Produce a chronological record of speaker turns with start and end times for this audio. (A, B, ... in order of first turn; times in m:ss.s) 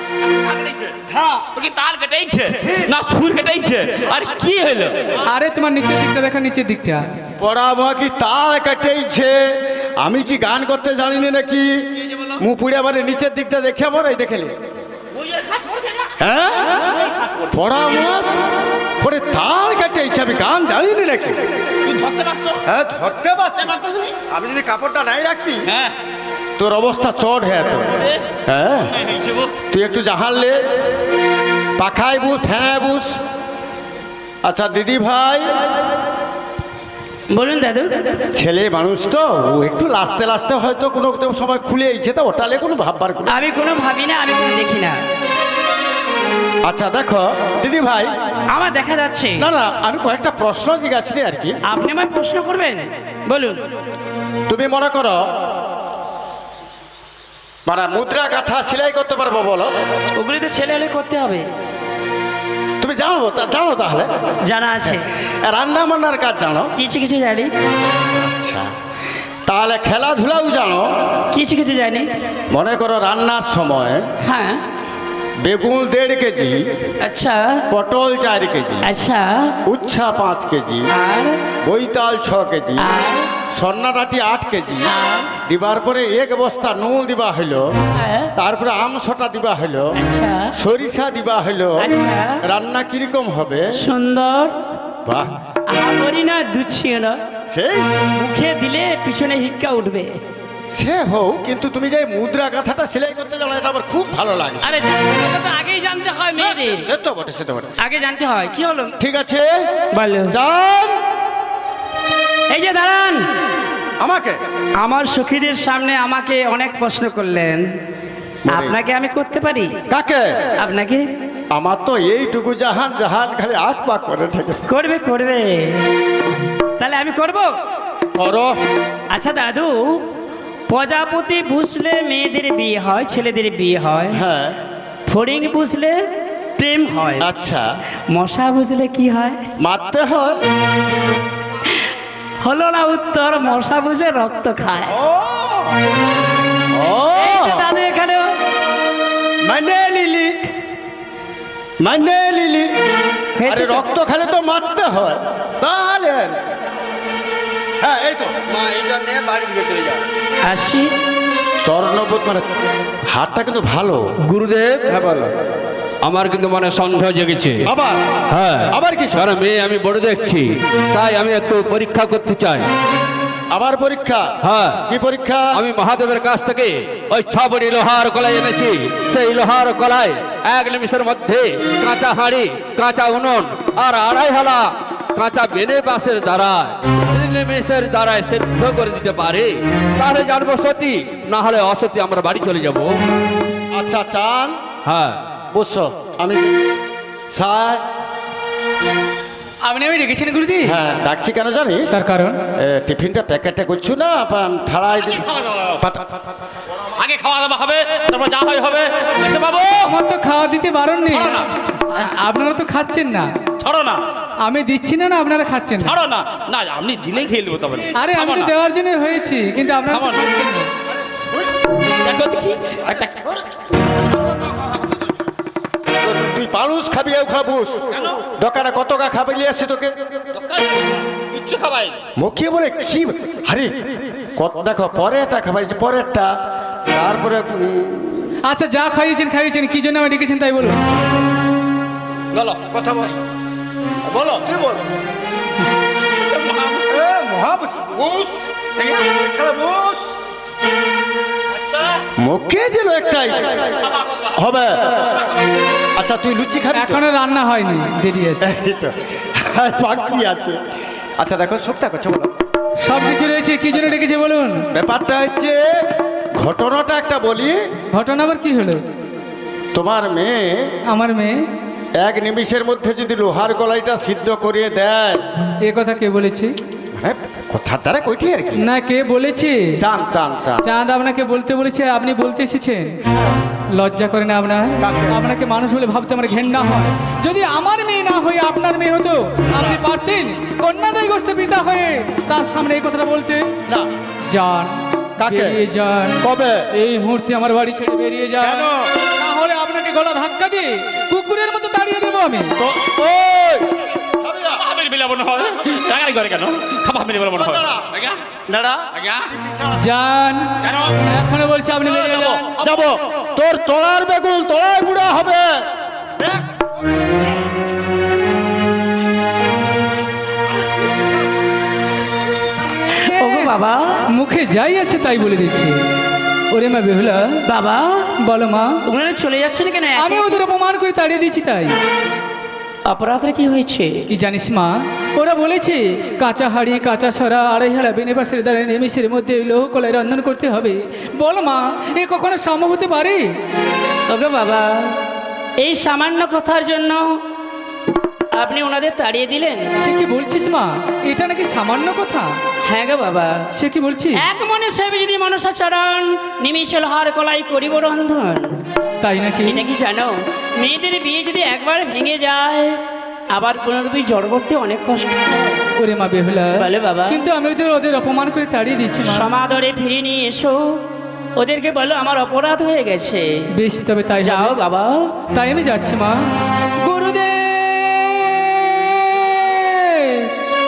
0:00.4-0:05.0 A
0:05.3-0:07.0 B
0:07.4-0:09.4 C
0:10.0-0:14.5 C
0:15.2-0:16.1 A
0:16.2-0:16.8 C
0:17.0-0:17.5 A
0:17.5-0:18.4 C
0:19.0-0:21.4 C
0:21.8-0:22.6 A
0:22.6-0:23.7 C
0:23.6-0:24.2 A
0:24.3-0:25.7 C
0:25.7-0:25.9 A
0:26.6-0:28.9 C
0:28.9-0:29.6 A
0:29.7-0:30.6 C
0:31.8-0:33.2 C
0:34.4-0:35.5 C
0:37.3-0:38.2 D
0:38.4-0:43.4 C
0:43.3-0:45.0 D
0:46.6-0:48.1 C
0:48.5-0:49.5 D
0:49.4-0:51.6 C
0:51.7-0:53.6 D
0:54.5-0:55.2 C
0:57.7-0:59.7 C
1:00.2-1:01.4 D
1:02.8-1:06.7 C
1:04.5-1:05.0 D
1:06.7-1:07.5 D
1:08.1-1:08.7 C
1:09.5-1:10.9 C
1:11.3-1:12.1 D
1:12.5-1:14.0 C
1:14.2-1:14.6 D
1:15.4-1:16.6 C
1:17.0-1:17.6 D
1:17.7-1:18.9 C
1:18.8-1:19.6 D
1:19.7-1:20.9 C
1:20.9-1:21.4 D
1:21.6-1:22.9 C
1:22.8-1:23.3 D
1:23.5-1:24.9 C
1:24.9-1:25.3 D
1:25.5-1:27.7 C
1:28.0-1:28.3 D
1:28.4-1:29.9 C
1:30.0-1:30.5 D
1:30.6-1:31.9 C
1:31.8-1:32.4 D
1:32.4-1:33.8 C
1:33.8-1:34.6 D
1:35.1-1:35.3 C
1:35.7-1:37.2 D
1:37.5-1:37.9 C
1:38.2-1:40.1 D
1:40.8-1:44.8 C
1:44.6-1:46.9 D
1:46.4-1:47.8 C
1:47.8-1:49.0 D
1:49.0-1:49.5 C
1:49.9-1:50.4 D
1:50.3-1:51.0 C
1:52.5-1:53.3 D
1:54.0-1:54.4 C
1:54.8-1:57.7 D
1:58.5-1:58.8 C
1:58.5-1:59.7 D
1:59.9-2:00.4 C
2:00.6-2:01.1 D
2:01.5-2:04.6 C
2:04.7-2:05.8 D
2:06.8-2:07.6 D
2:08.2-2:08.6 C
2:09.1-2:10.0 D
2:10.7-2:14.2 D
2:14.1-2:14.6 C
2:15.1-2:16.0 D
2:16.6-2:17.3 D
2:17.2-2:17.7 C
2:18.1-2:19.4 D
2:19.6-2:20.4 C
2:22.4-2:24.9 D
2:24.9-2:25.8 C
2:26.7-2:27.7 C
2:27.0-2:28.3 D
2:29.4-2:30.4 C
2:31.8-2:32.7 C
2:33.4-2:33.8 D
2:33.5-2:36.4 C
2:37.8-2:38.4 C
2:38.5-2:40.0 E
2:40.4-2:40.9 D
2:41.6-2:44.0 C
2:44.3-2:44.9 E
2:44.9-2:45.3 C
2:46.0-2:47.7 E
2:47.6-2:49.3 C
2:48.3-2:52.7 E
2:53.5-2:54.3 C
2:54.4-2:54.8 E
2:54.9-2:55.5 C
2:55.5-3:12.9 E
3:13.7-3:14.6 C
3:14.8-3:15.2 E
3:15.5-3:16.6 C
3:17.3-3:17.8 C
3:19.6-3:20.8 B
3:20.7-3:21.9 C
3:21.9-3:22.4 B
3:22.6-3:25.3 C
3:25.2-3:25.8 A
3:25.8-3:26.1 C
3:27.0-3:30.0 A
3:29.9-3:33.3 B
3:31.1-3:31.4 A
3:33.6-3:34.0 A
3:34.4-3:36.0 B
3:35.8-3:38.5 A
3:38.0-3:40.7 B
3:39.9-3:40.3 A
3:41.0-3:41.5 C
3:42.0-3:42.8 D
3:42.7-3:43.4 A
3:44.5-3:45.0 A
3:46.0-3:47.8 C
3:47.9-3:48.2 A
3:48.4-3:49.9 C
3:50.3-3:52.0 A
3:52.2-3:53.7 C
3:54.4-3:56.3 C
3:56.9-3:58.3 C
3:58.5-4:00.8 B
4:02.3-4:02.7 A
4:02.7-4:03.1 C
4:04.1-4:04.4 A
4:04.2-4:04.8 C
4:06.2-4:06.9 A
4:06.9-4:10.1 C
4:12.2-4:15.3 C
4:16.0-4:17.0 C
4:16.7-4:18.5 B
4:18.4-4:20.6 C
4:21.2-4:22.3 C
4:22.8-4:24.6 B
4:24.7-4:25.6 C
4:26.4-4:27.6 C
4:27.9-4:28.8 B
4:29.7-4:30.7 C
4:30.9-4:31.4 B
4:32.0-4:35.2 C
4:35.6-4:36.5 B
4:36.9-4:38.6 C
4:38.6-4:39.7 B
4:39.8-4:40.6 C
4:40.6-4:42.9 B
4:43.7-4:53.4 B
4:44.8-4:45.2 C
4:54.3-4:56.2 B
4:55.2-4:55.6 C
4:56.2-4:56.6 C
4:56.8-5:02.5 B
4:58.4-4:58.9 C
5:02.6-5:04.6 C
5:04.6-5:08.2 A
5:07.4-5:07.9 C
5:08.5-5:09.8 C
5:08.9-5:09.3 A
5:09.8-5:12.5 B
5:10.6-5:11.0 A
5:11.8-5:12.6 A
5:12.5-5:15.7 C
5:16.2-5:16.4 C
5:22.9-5:23.5 B
5:23.0-5:24.0 D
5:24.1-5:25.8 B
5:26.5-5:27.2 B
5:27.5-5:28.1 D
5:28.3-5:28.8 B
5:28.9-5:30.4 D
5:30.0-5:31.7 B
5:32.9-5:34.0 D
5:34.1-5:43.2 B
5:44.1-5:45.0 D
5:45.6-5:47.2 D
5:48.3-5:49.7 D
5:49.8-5:52.4 B
5:52.6-5:53.5 D
5:53.6-5:54.2 B
5:54.2-5:58.5 D
5:59.0-5:59.6 B
5:59.5-6:02.8 D
6:03.3-6:05.7 D
6:05.8-6:09.3 B
6:06.6-6:07.2 D
6:09.1-6:10.8 D
6:11.4-6:13.4 D
6:13.6-6:14.6 B
6:14.2-6:15.1 D
6:15.3-6:16.3 B
6:16.8-6:20.3 B